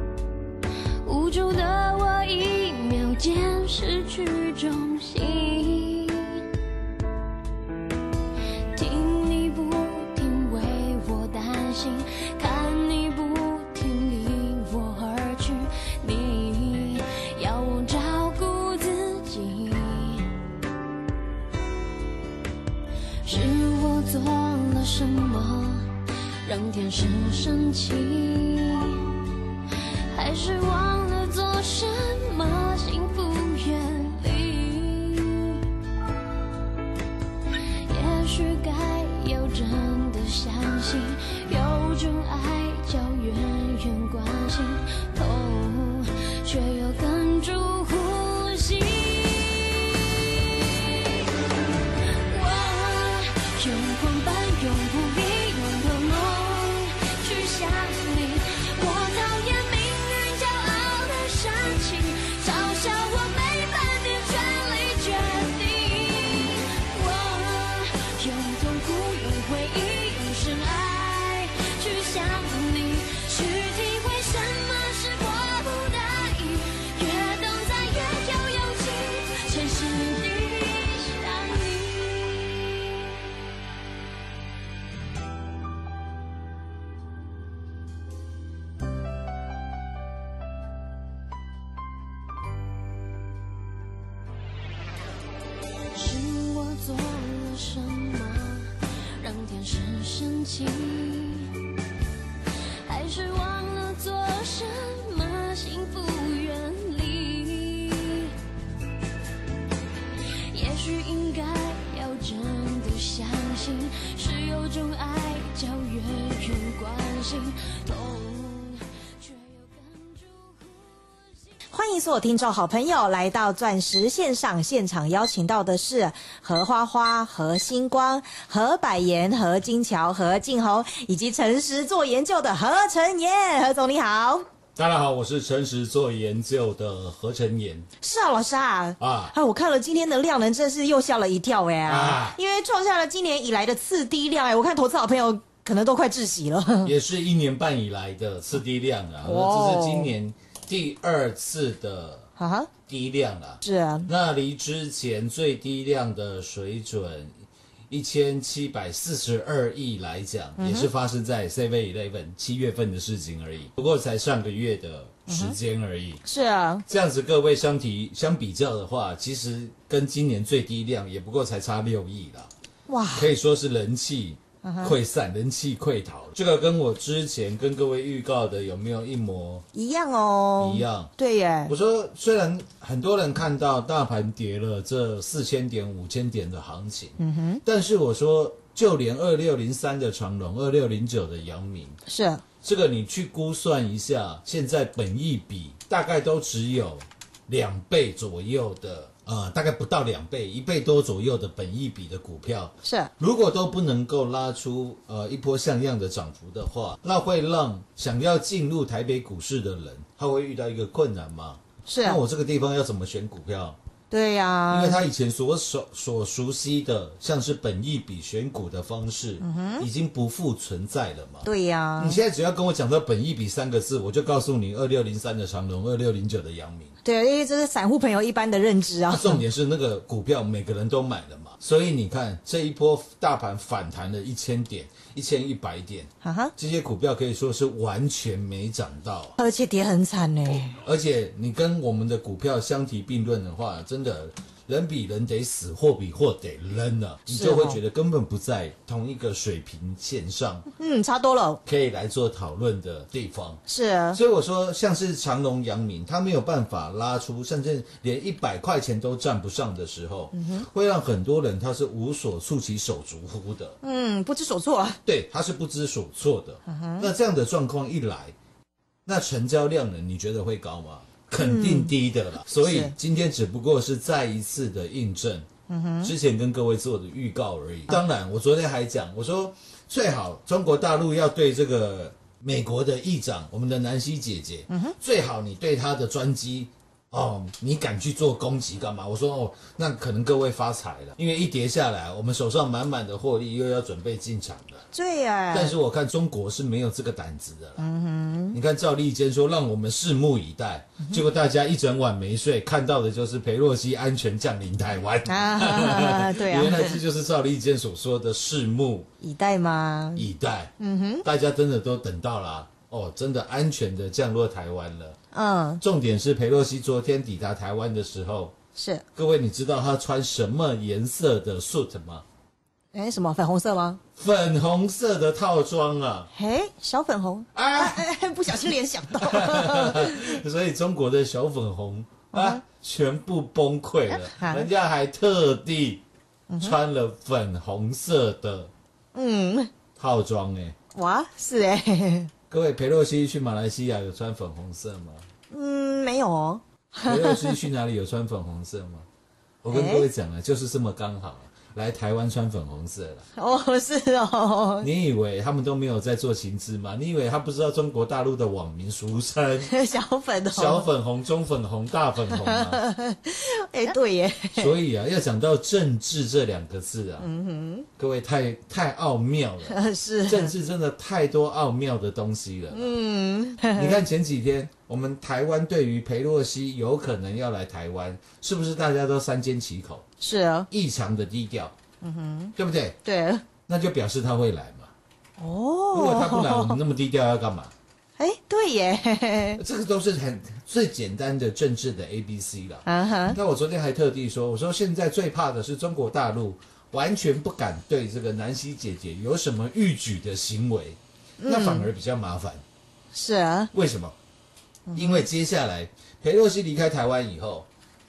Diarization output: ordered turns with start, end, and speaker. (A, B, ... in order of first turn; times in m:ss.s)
0:01.0-0:06.4 A
0:08.7-0:20.3 A
0:23.2-0:25.9 A
0:26.4-0:29.0 A
0:30.1-0:35.6 A
0:37.9-0:51.1 A
0:52.3-1:22.7 A
1:35.9-1:41.5 A
1:42.8-1:48.3 A
1:50.5-2:01.4 A
2:01.7-2:14.4 B
2:14.8-2:17.9 C
2:18.0-2:26.9 B
2:19.0-2:19.3 C
2:21.8-2:22.4 C
2:26.8-2:32.3 C
2:29.2-2:30.1 B
2:32.4-2:32.7 B
2:32.9-2:46.2 C
2:33.6-2:34.1 B
2:40.6-2:40.9 B
2:45.3-2:45.6 B
2:46.2-2:46.8 B
2:46.9-2:52.5 C
2:52.9-2:53.3 B
2:53.1-2:59.6 C
2:54.6-2:55.0 B
2:59.7-3:01.7 B
3:00.6-3:01.1 C
3:01.7-3:12.0 C
3:07.2-3:07.6 B
3:12.1-3:12.4 B
3:12.6-3:33.8 C
3:22.8-3:23.1 B
3:31.8-3:32.2 B
3:34.1-3:35.0 B
3:34.7-3:41.5 C
3:39.4-3:39.9 B
3:41.4-3:42.2 B
3:42.0-3:46.9 C
3:47.0-3:49.4 B
3:49.1-3:59.4 C
3:56.2-3:56.5 B
3:59.4-4:00.8 B
4:00.8-4:10.7 C
4:07.3-4:07.8 B
4:10.8-4:11.6 B
4:11.6-4:13.6 C
4:13.7-4:14.2 B
4:14.1-4:23.8 C
4:20.3-4:20.6 B
4:23.8-4:25.0 B
4:25.0-4:28.3 C
4:26.6-4:27.1 B
4:29.0-4:35.5 C
4:31.4-4:31.9 B
4:32.6-4:32.9 B
4:35.7-4:36.1 B
4:36.0-4:54.8 C
4:44.7-4:44.9 B
4:54.9-4:55.7 B
4:55.5-4:57.8 C
4:57.8-4:58.6 B
4:58.5-5:09.1 C
5:05.3-5:07.0 B
5:09.2-5:10.3 B
5:10.1-5:10.7 C
5:10.8-5:11.2 B
5:11.2-5:15.2 C
5:15.3-5:15.8 B
5:15.8-5:18.5 C
5:18.7-5:19.0 B
5:19.1-5:22.2 C
5:22.9-5:24.0 B
5:24.2-5:26.3 C
5:26.3-5:30.3 B
5:27.5-5:28.0 C
5:28.6-5:36.0 C
5:32.3-5:32.6 B
5:34.1-5:34.7 B
5:36.5-5:36.8 B
5:36.6-5:38.7 C
5:39.1-5:39.7 B
5:40.0-5:40.8 C
5:40.9-5:42.3 B
5:42.5-5:45.2 C
5:45.5-5:47.6 B
5:47.0-5:49.0 C
5:49.6-5:53.3 C
5:49.7-5:50.1 B
5:53.4-5:54.9 B
5:54.8-5:59.7 C
5:59.7-6:00.9 B
6:00.5-6:02.8 C
6:02.4-6:04.7 B
6:04.6-6:07.3 C
6:07.2-6:07.9 B
6:08.0-6:12.9 C
6:09.7-6:10.5 B
6:12.7-6:14.0 B
6:13.7-6:20.0 C
6:20.2-6:20.7 B
6:20.7-6:21.8 C
6:22.0-6:23.4 B
6:22.6-6:23.0 C
6:23.7-6:24.9 C
6:25.4-6:26.8 B
6:25.9-6:27.7 C
6:28.2-6:29.6 B
6:29.6-6:42.6 C
6:32.8-6:33.4 B
6:41.4-6:41.9 B
6:43.1-6:43.7 B
6:43.7-6:44.1 C
6:44.9-6:45.2 B
6:44.9-6:47.7 C